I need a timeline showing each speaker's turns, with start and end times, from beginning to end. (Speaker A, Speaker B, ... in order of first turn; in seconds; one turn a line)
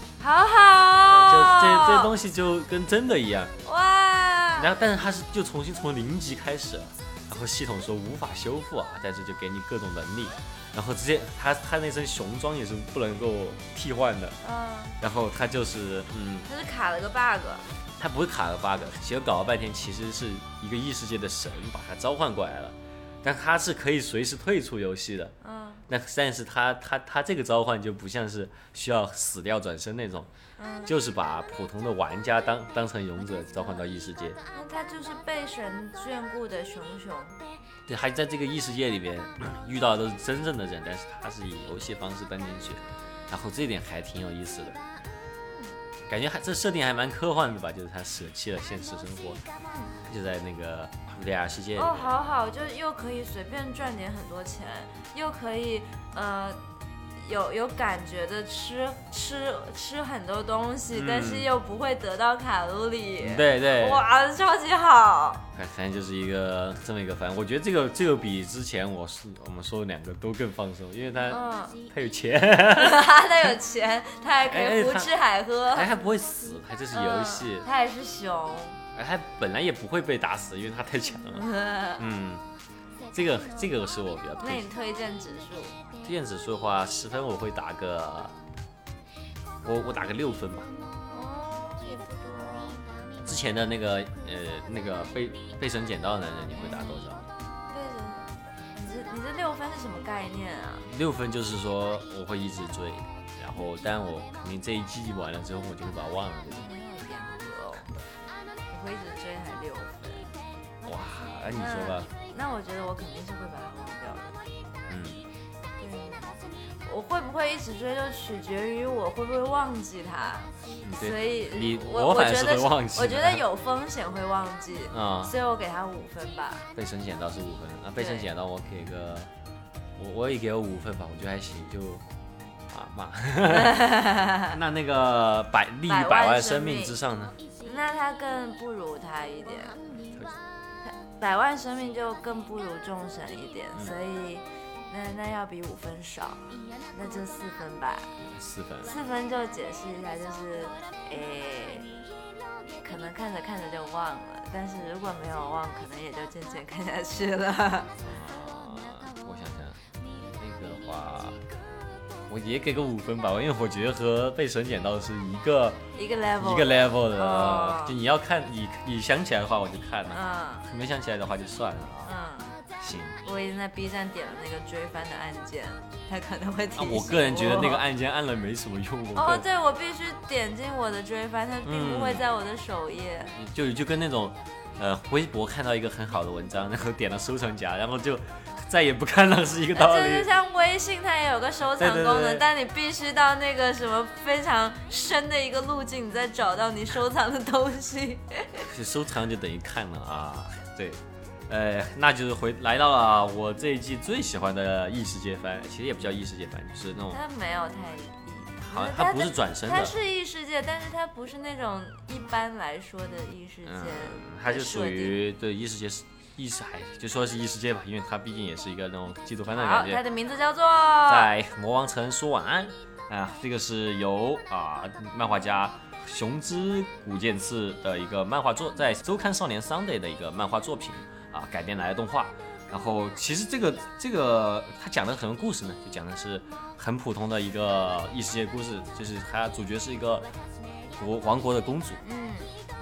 Speaker A: 0.2-2.1
Speaker B: 1.0-3.5
Speaker A: 3.6-4.7
Speaker B: 4.5-14.4
Speaker A: 14.4-14.9
Speaker B: 15.0-16.5
Speaker A: 16.4-17.7
Speaker B: 18.0-25.3
Speaker A: 25.4-25.8
Speaker B: 25.9-30.3
Speaker A: 30.6-30.9
Speaker B: 30.9-34.4
Speaker A: 34.5-37.4
Speaker B: 37.9-44.8
Speaker B: 46.1-49.4
Speaker A: 49.7-50.0
Speaker B: 50.1-52.1
Speaker A: 51.8-56.6
Speaker A: 57.2-65.5
Speaker B: 60.9-61.5
Speaker B: 63.2-64.0
Speaker B: 65.5-73.1
Speaker A: 71.2-71.8
Speaker A: 72.7-75.9
Speaker B: 74.5-75.1
Speaker B: 75.7-77.7
Speaker A: 76.9-78.8
Speaker B: 78.9-81.5
Speaker A: 81.3-82.0
Speaker B: 82.0-82.4
Speaker B: 83.1-84.7
Speaker A: 84.4-85.8
Speaker B: 86.0-88.3
Speaker B: 89.6-90.7
Speaker A: 91.1-92.9
Speaker B: 93.2-97.2
Speaker A: 96.5-97.0
Speaker A: 97.7-100.9
Speaker B: 100.9-106.7
Speaker A: 106.5-107.9
Speaker A: 108.7-110.3
Speaker B: 110.8-112.1
Speaker A: 111.5-114.4
Speaker B: 114.9-115.2
Speaker A: 115.8-126.7
Speaker B: 120.8-123.4
Speaker B: 124.9-125.3
Speaker B: 126.7-129.3
Speaker A: 128.0-128.3
Speaker B: 129.9-132.0
Speaker B: 132.7-133.8
Speaker A: 133.5-134.5
Speaker B: 134.5-137.3
Speaker A: 135.9-136.9
Speaker A: 137.6-139.8
Speaker B: 140.1-140.4
Speaker A: 140.8-148.1
Speaker B: 148.2-148.9
Speaker A: 148.8-151.9
Speaker A: 152.7-157.9
Speaker B: 158.0-159.8
Speaker B: 160.3-161.4
Speaker B: 162.3-165.8
Speaker A: 165.9-168.0
Speaker B: 166.3-172.1
Speaker A: 170.1-170.6
Speaker A: 172.0-172.5
Speaker B: 172.8-173.2
Speaker A: 173.2-177.8
Speaker B: 176.7-179.4
Speaker A: 179.1-183.3
Speaker B: 181.6-182.2
Speaker B: 183.3-190.3
Speaker A: 189.8-198.7
Speaker B: 191.7-192.5
Speaker B: 198.6-207.2
Speaker A: 207.1-215.2
Speaker B: 208.6-209.9
Speaker B: 213.6-220.0
Speaker A: 219.5-221.3
Speaker B: 221.1-240.3
Speaker B: 240.9-242.0
Speaker A: 242.0-242.5